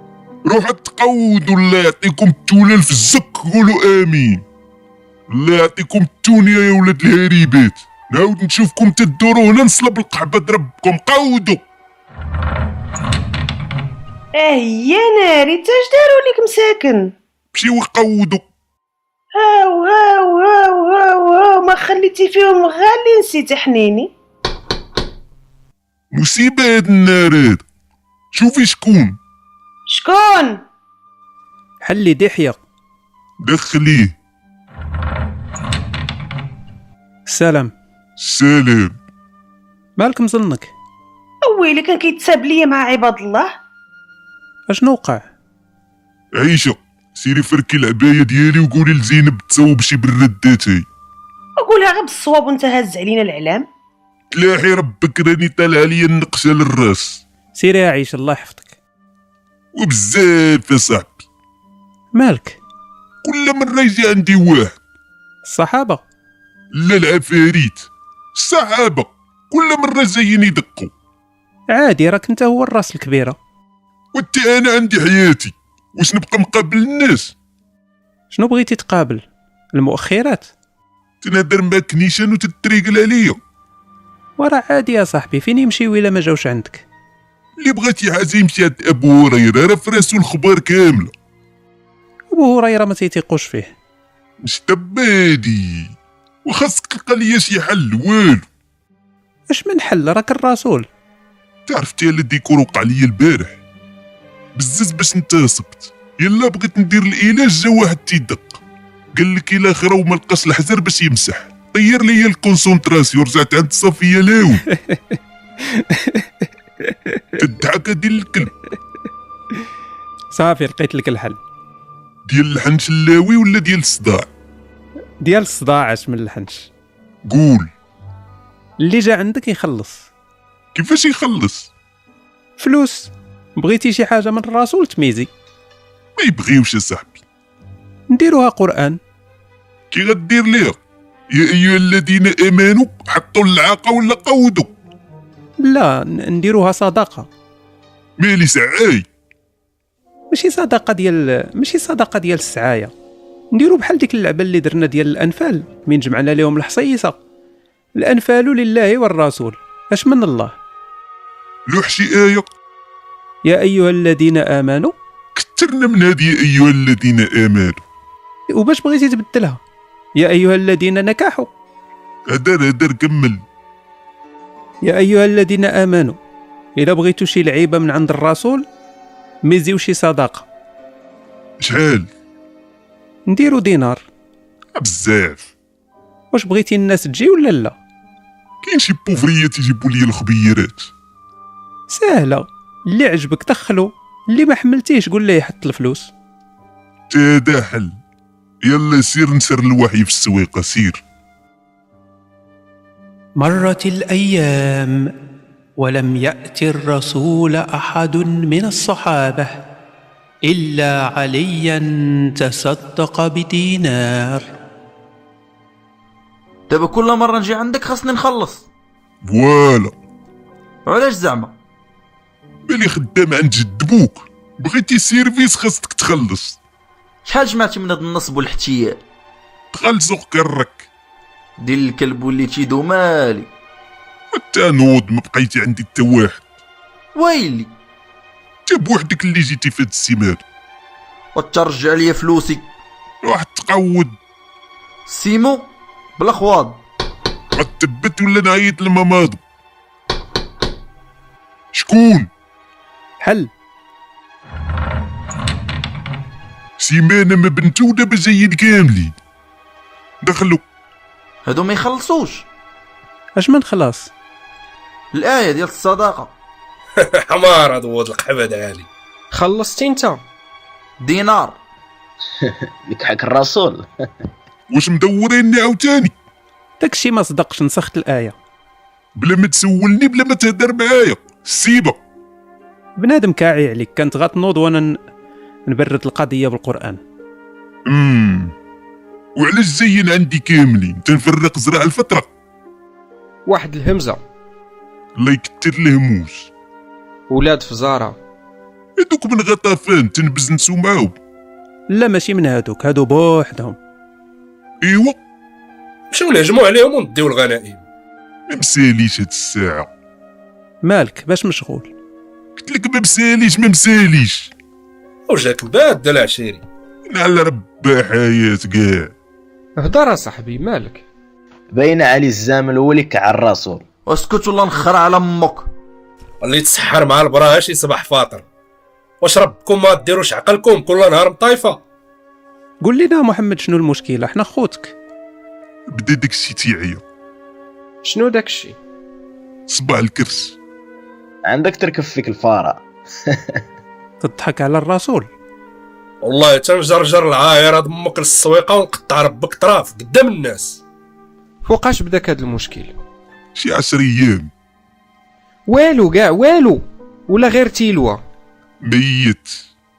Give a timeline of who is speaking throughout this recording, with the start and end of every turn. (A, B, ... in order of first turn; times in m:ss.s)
0:00.4-0:04.4 A
0:05.3-0:11.6 A
0:14.4-0:17.1 B
0:17.5-0:18.4 A
0:19.3-0:24.1 B
0:26.1-0:27.6 A
0:28.3-0:29.2 A
0:29.9-0:30.6 B
0:31.8-0:32.6 C
0:33.4-0:34.1 A
0:37.3-0:37.7 C
0:38.2-0:38.9 A
0:40.0-0:40.7 C
0:41.4-0:43.5 B
0:44.7-0:45.2 C
0:46.4-0:50.8 A
0:51.6-0:53.7 B
0:54.3-0:57.2 A
0:57.6-0:58.7 C
0:59.7-1:01.2 A
1:02.1-1:02.6 C
1:03.2-1:04.8 A
1:05.4-1:06.0 C
1:06.8-1:10.9 A
1:11.7-1:13.4 C
1:14.1-1:17.3 A
1:18.3-1:20.5 C
1:21.2-1:23.4 A
1:24.4-1:26.8 C
1:27.6-1:31.1 A
1:32.3-1:33.7 C
1:34.4-1:35.9 A
1:36.4-1:38.4 A
1:39.5-1:40.9 C
1:41.7-1:43.6 A
1:44.6-1:48.6 A
1:49.1-1:54.6 A
1:54.7-1:56.3 C
1:56.8-1:57.3 C
1:57.4-1:58.5 A
2:00.3-2:01.4 C
2:02.3-2:04.3 A
2:05.2-2:06.7 C
2:07.2-2:07.7 A
2:08.8-2:10.1 C
2:10.8-2:11.7 A
2:12.6-2:15.3 C
2:16.2-2:17.2 A
2:18.1-2:19.0 C
2:19.9-2:20.8 A
2:21.3-2:24.7 A
2:25.6-2:27.3 C
2:28.2-2:29.1 A
2:30.3-2:32.9 C
2:33.5-2:37.2 C
2:38.0-2:40.5 C
2:41.7-2:42.5 A
2:43.4-2:44.9 C
2:45.3-2:47.8 A
2:48.5-2:49.6 C
2:50.2-2:51.5 C
2:52.3-2:53.4 A
2:54.8-2:56.2 C
2:56.8-2:58.6 C
2:59.5-3:00.4 C
3:01.6-3:02.1 A
3:03.3-3:04.0 C
3:04.8-3:05.5 A
3:06.3-3:07.8 C
3:08.6-3:10.9 A
3:11.9-3:16.1 C
3:17.1-3:18.0 A
3:18.6-3:21.0 A
3:23.4-3:25.1 C
3:25.8-3:29.6 C
3:30.4-3:34.5 C
3:36.7-3:38.6 D
3:39.2-3:39.9 A
3:40.8-3:41.5 D
3:42.7-3:46.6 A
3:47.2-3:49.0 D
3:49.7-3:50.8 A
3:51.6-3:53.5 D
3:54.3-3:56.4 A
3:57.2-3:57.7 D
3:58.7-4:00.4 A
4:01.3-4:02.7 D
4:03.2-4:04.1 A
4:05.1-4:06.8 D
4:07.6-4:09.4 A
4:11.7-4:12.3 A
4:13.2-4:13.5 C
4:16.8-4:19.1 A
4:20.2-4:20.6 A
4:21.4-4:22.4 D
4:23.4-4:24.1 C
4:25.1-4:26.3 D
4:27.0-4:28.9 E
4:29.3-4:30.2 F
4:31.0-4:31.6 D
4:32.5-4:33.8 G
4:34.7-4:36.1 A
4:36.8-4:38.3 C
4:39.2-4:42.0 A
4:43.0-4:45.0 C
4:45.7-4:47.0 C
4:47.9-4:48.5 A
4:49.4-4:52.3 A
4:53.5-4:54.2 F
4:55.2-4:56.5 A
4:57.3-4:58.2 F
4:59.0-5:01.2 A
5:01.9-5:03.8 C
5:04.8-5:05.2 A
5:06.1-5:07.8 E
5:08.5-5:09.9 A
5:10.8-5:11.9 C
5:12.6-5:14.5 A
5:15.3-5:16.6 E
5:17.1-5:19.1 A
5:19.8-5:21.0 F
5:21.7-5:23.8 G
5:24.1-5:25.7 D
5:26.4-5:28.4 E
5:29.2-5:31.8 E
5:32.8-5:34.9 C
5:35.9-5:37.0 A
5:38.0-5:38.8 F
5:39.7-5:40.6 A
5:41.5-5:43.4 G
5:44.2-5:45.3 C
5:46.2-5:50.8 E
5:51.7-5:52.9 F
5:53.6-5:54.5 A
5:55.7-5:58.2 F
5:58.8-5:59.6 A